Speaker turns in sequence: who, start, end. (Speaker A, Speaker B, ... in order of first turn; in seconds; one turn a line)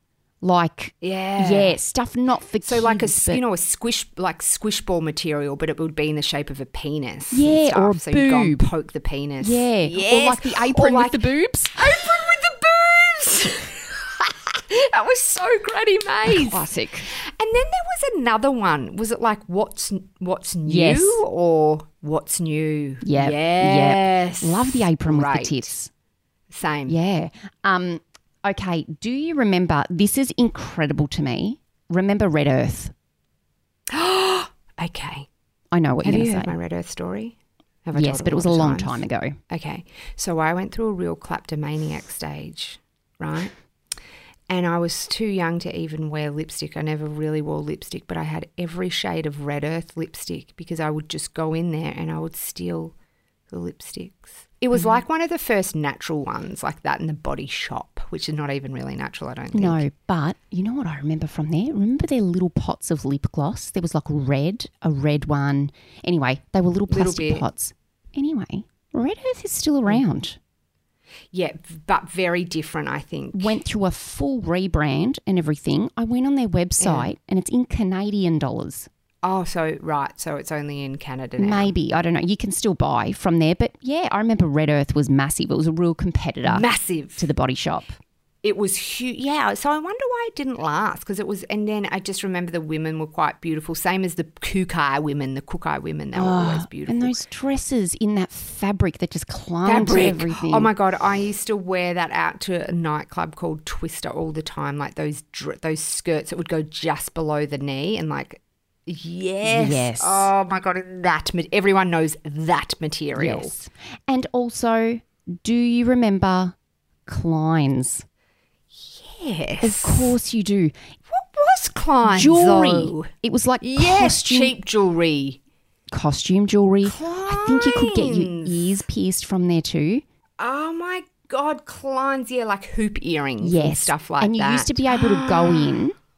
Speaker A: 0.4-3.4
Speaker B: 1.0-1.8
Speaker B: 2.6-25.7
Speaker A: 7.3-8.7
Speaker A: 9.4-11.9
Speaker A: 16.2-17.1
Speaker A: 20.6-21.2
Speaker A: 23.0-25.9
Speaker B: 26.5-27.0
Speaker A: 26.9-32.9
Speaker B: 33.9-35.3
Speaker A: 35.7-36.5
Speaker B: 36.0-43.5
Speaker A: 37.9-39.4
Speaker B: 44.5-53.0
Speaker B: 53.5-59.8
Speaker A: 54.8-55.0
Speaker A: 59.5-70.4
Speaker B: 66.9-67.5
Speaker B: 71.3-73.6
Speaker A: 73.3-78.9
Speaker B: 76.8-77.1
Speaker B: 79.2-81.7
Speaker A: 81.4-88.0
Speaker B: 86.4-87.2
Speaker B: 88.4-97.2
Speaker A: 96.1-100.7
Speaker B: 99.6-113.5
Speaker A: 109.4-110.3
Speaker A: 113.1-118.0
Speaker B: 118.7-120.2
Speaker A: 119.6-120.7
Speaker B: 121.1-123.1
Speaker A: 122.0-124.5
Speaker B: 123.6-125.4
Speaker A: 125.9-130.0
Speaker B: 126.8-128.7
Speaker B: 130.4-135.8
Speaker A: 133.4-135.9